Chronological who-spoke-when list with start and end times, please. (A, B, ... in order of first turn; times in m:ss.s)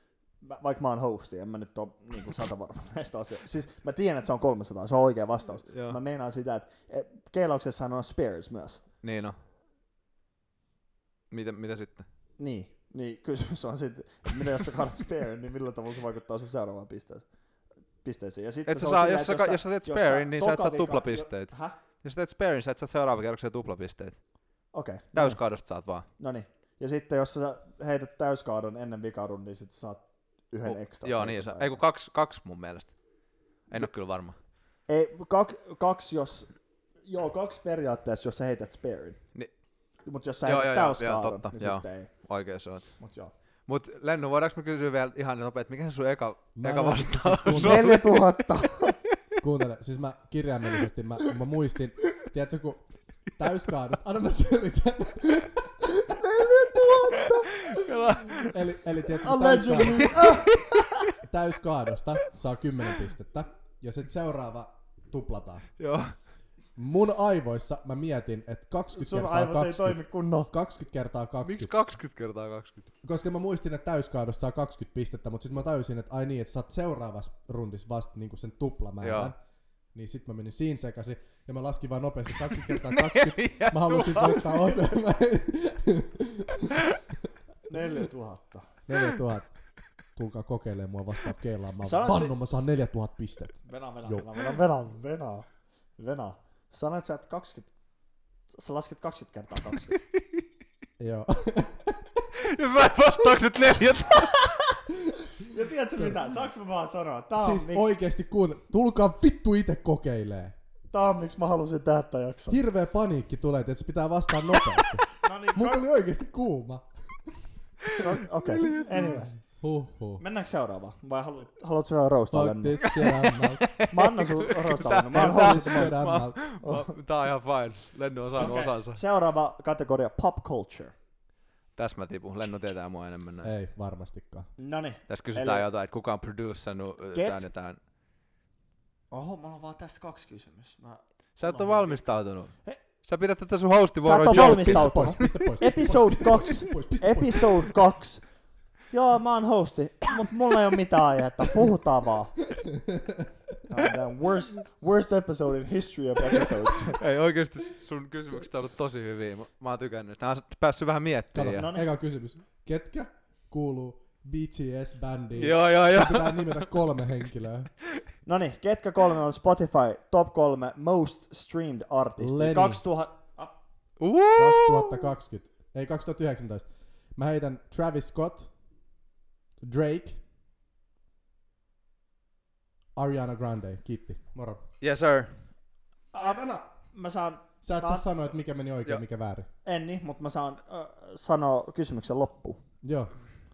0:00.4-0:08.8 A
0:05.7-0:06.0 B
0:09.0-0:09.4 B
0:11.3-0:12.1 B
0:12.4-0:17.3 A
0:18.0-0:21.8 A
0:18.7-0:24.2 B
0:24.7-0:25.5 A
0:25.2-0:26.1 B
0:26.2-0:31.8 A
0:30.6-0:33.0 B
0:33.6-0:34.4 B
0:34.9-0:39.2 A
0:40.0-0:42.3 A
0:40.4-0:43.0 B
0:43.0-0:43.3 A
0:43.7-0:48.4 B
0:46.6-0:48.0 C
0:47.6-0:49.0 A
0:49.4-0:55.8 C
0:56.0-0:57.5 A
0:57.2-0:58.6 B
0:58.4-1:00.2 C
0:59.2-1:01.1 A
1:01.2-1:05.7 C
1:05.8-1:06.2 B
1:06.8-1:11.7 C
1:09.0-1:10.5 A
1:11.4-1:12.9 B
1:13.0-1:19.4 C
1:19.0-1:19.3 B
1:19.9-1:26.8 C
1:22.7-1:24.8 B
1:27.7-1:28.7 A
1:28.9-1:29.6 C
1:30.1-1:34.3 C
1:31.8-1:32.6 A
1:33.6-1:37.7 A
1:38.5-1:40.0 A
1:41.0-1:42.2 C
1:42.4-1:44.6 B
1:45.4-1:47.9 A
1:47.4-1:50.6 C
1:50.9-1:52.6 A
1:52.5-1:57.5 C
1:55.2-1:55.9 A
1:58.0-1:59.4 A
1:58.6-1:59.1 B
1:58.9-2:00.2 C
2:00.2-2:02.9 A
2:02.3-2:03.8 C
2:02.8-2:09.0 B
2:03.9-2:06.0 A
2:05.1-2:06.4 C
2:06.6-2:06.9 A
2:08.4-2:10.9 A
2:11.8-2:13.6 B
2:13.4-2:14.5 C
2:14.6-2:15.7 A
2:15.1-2:17.8 B
2:17.1-2:17.5 A
2:19.1-2:22.1 A
2:21.4-2:25.5 B
2:24.0-2:32.4 A
2:24.3-2:27.8 C
2:32.8-2:33.3 C
2:33.7-2:37.0 A
2:37.0-2:41.7 B
2:41.3-2:47.7 C
2:41.6-2:41.9 A
2:45.4-2:46.7 B
2:48.2-2:53.6 A
2:52.2-2:52.8 C
2:54.0-2:55.1 B
2:54.4-2:58.5 C
2:59.6-3:00.2 C
3:03.0-3:04.6 C
3:04.8-3:05.4 B
3:06.1-3:08.1 A
3:07.6-3:09.5 C
3:09.6-3:12.6 A
3:12.8-3:13.1 C